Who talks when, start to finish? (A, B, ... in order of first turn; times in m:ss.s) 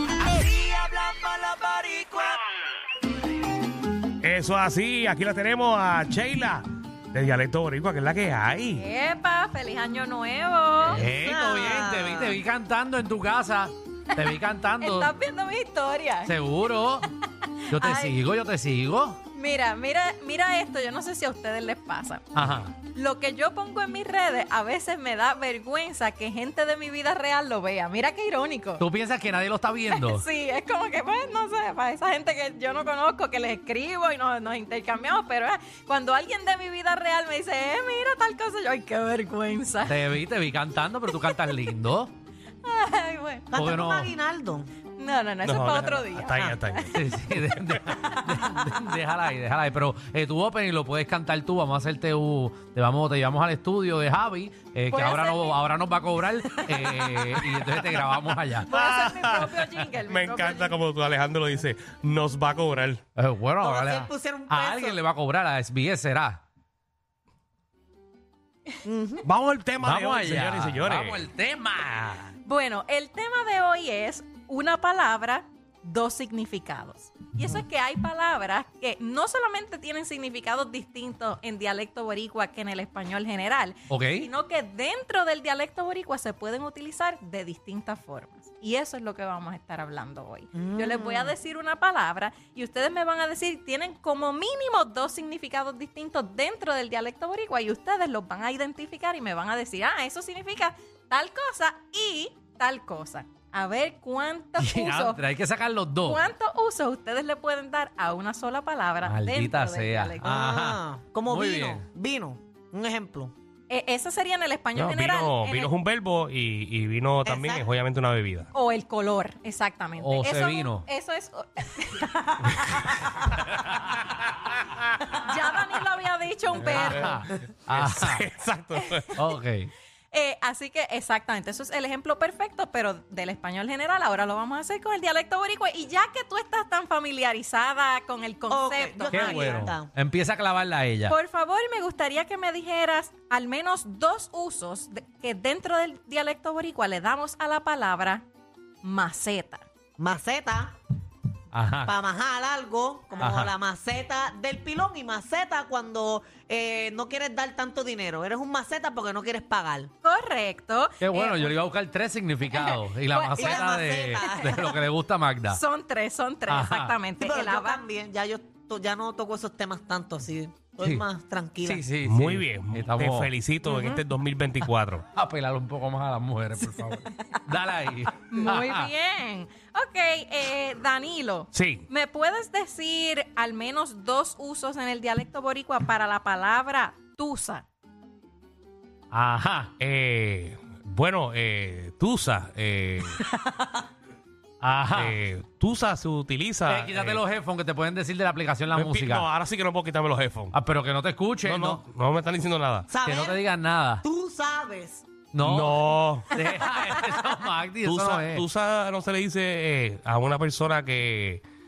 0:00.3-0:02.4 A
0:04.2-0:08.8 B
0:08.7-0:11.0 C
0:10.9-0:15.1 D
0:11.0-0:12.4 A
0:14.2-0:16.3 C
0:16.2-0:17.1 D
0:17.7-0:18.2 C
0:17.7-0:19.2 D
0:19.3-0:22.3 C
0:22.3-0:22.7 D
0:22.8-0:28.8 C
0:28.8-0:30.2 D
0:29.9-0:40.2 C
0:39.8-0:42.1 D
0:41.1-0:41.6 C
0:42.6-0:43.5 C
0:43.5-0:44.7 A
0:43.5-0:44.1 D
0:45.0-0:47.0 C
0:45.4-0:47.8 B
0:46.9-0:58.7 D
0:48.0-0:48.8 C
0:54.9-0:55.6 C
0:56.5-0:57.6 C
0:58.6-1:00.8 C
0:58.7-1:03.0 B
1:03.2-1:06.4 D
1:03.6-1:05.0 A
1:08.8-1:09.2 A
1:09.2-1:11.2 B
1:09.8-1:12.3 D
1:12.4-1:45.2 C
1:23.9-1:24.3 D
1:30.5-1:31.3 A
1:44.6-1:46.2 D
1:46.0-1:50.3 C
1:49.0-1:51.8 D
1:50.2-1:53.3 A
1:53.7-1:55.7 C
1:54.7-1:58.5 B
1:57.2-1:57.7 A
1:58.5-2:03.3 C
2:00.0-2:00.8 D
2:05.1-2:07.2 C
2:06.6-2:09.1 B
2:06.6-2:08.3 D
2:09.1-2:09.7 D
2:10.1-2:19.7 C
2:18.5-2:19.9 A
2:19.1-2:21.2 D
2:21.1-2:28.2 C
2:28.8-2:29.6 C
2:30.0-2:30.7 A
2:31.5-2:31.9 D
2:31.8-2:39.9 A
2:33.2-2:33.5 D
2:40.0-2:41.6 C
2:41.0-2:45.6 D
2:42.5-2:44.7 C
2:43.3-2:44.8 A
2:45.5-2:47.8 C
2:46.5-2:47.0 D
2:47.2-2:51.8 A
2:50.8-2:51.0 D
2:51.6-2:53.3 D
2:52.0-2:55.1 B
2:53.6-2:54.0 C
2:55.1-2:58.9 D
2:58.3-3:07.6 C
3:01.5-3:01.8 B
3:09.1-3:09.7 D
3:09.8-3:13.2 B
3:14.6-3:15.2 D
3:14.9-3:17.2 B
3:16.7-3:19.3 D
3:18.7-3:20.5 B
3:20.5-3:21.8 D
3:21.4-3:22.9 B
3:22.9-3:23.4 A
3:23.0-3:24.0 D
3:24.0-3:25.0 A
3:25.3-3:28.4 D
3:25.4-3:26.7 B
3:27.8-3:31.4 B